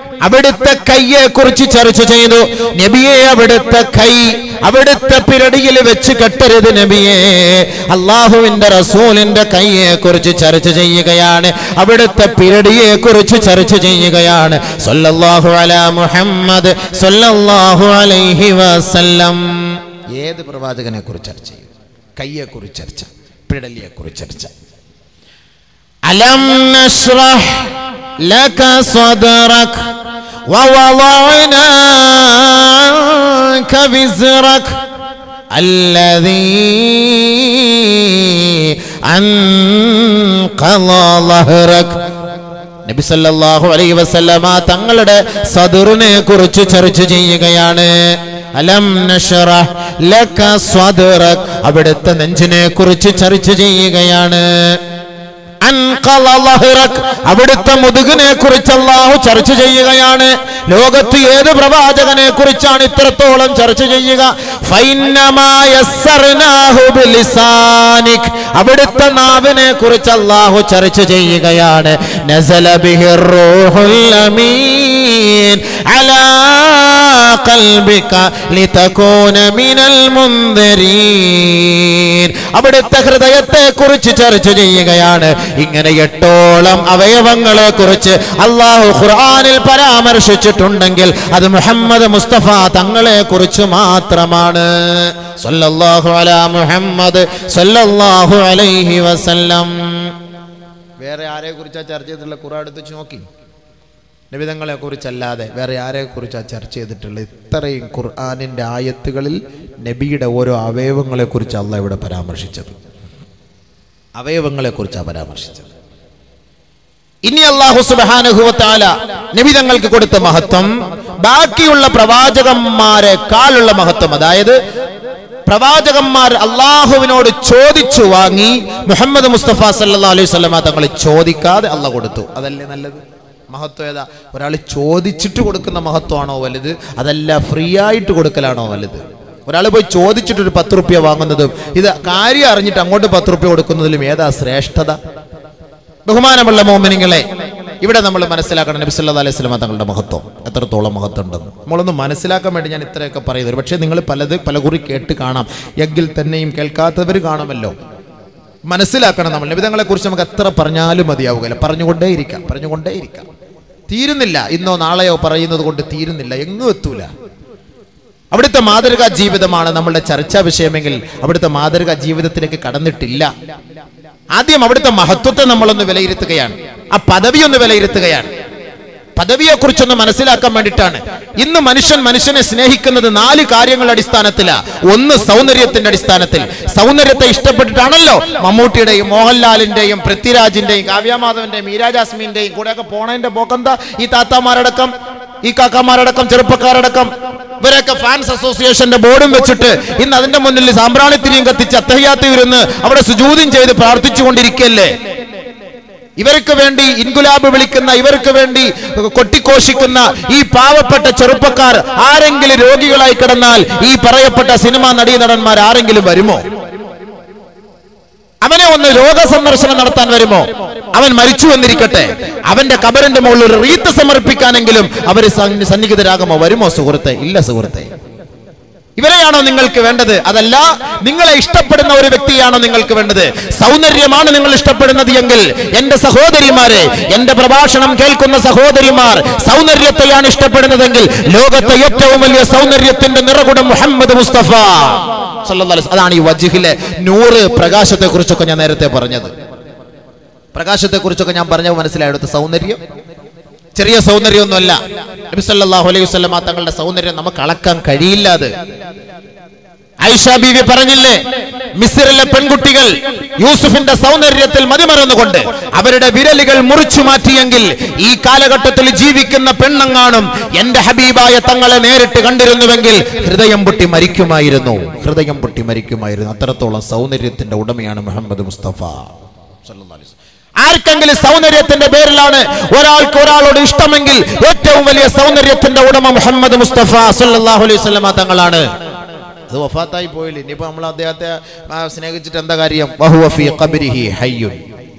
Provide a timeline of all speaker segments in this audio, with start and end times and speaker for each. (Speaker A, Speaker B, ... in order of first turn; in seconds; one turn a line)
Speaker A: 0.2-24.5
Speaker A: 26.1-29.9
Speaker A: 30.5-34.8
Speaker A: 35.5-42.0
Speaker A: 42.9-54.8
Speaker A: 55.6-100.1
Speaker A: 101.0-103.2
Speaker A: 104.3-112.7
Speaker A: 114.2-115.7
Speaker A: 117.2-120.7
Speaker A: 121.2-124.6
Speaker A: 125.5-145.0
Speaker A: 146.1-147.2
Speaker A: 147.8-157.7
Speaker A: 158.7-163.3
Speaker A: 163.9-167.1
Speaker A: 168.3-173.3
Speaker A: 174.3-178.3
Speaker A: 179.2-194.9
Speaker A: 195.4-197.1
Speaker A: 197.6-204.9
Speaker A: 206.2-216.4
Speaker A: 218.4-227.9
Speaker A: 229.0-249.3
Speaker A: 250.5-252.8
Speaker A: 253.7-254.8
Speaker A: 255.3-258.5
Speaker A: 260.0-261.2
Speaker A: 261.8-279.1
Speaker A: 279.6-288.7
Speaker A: 289.5-294.6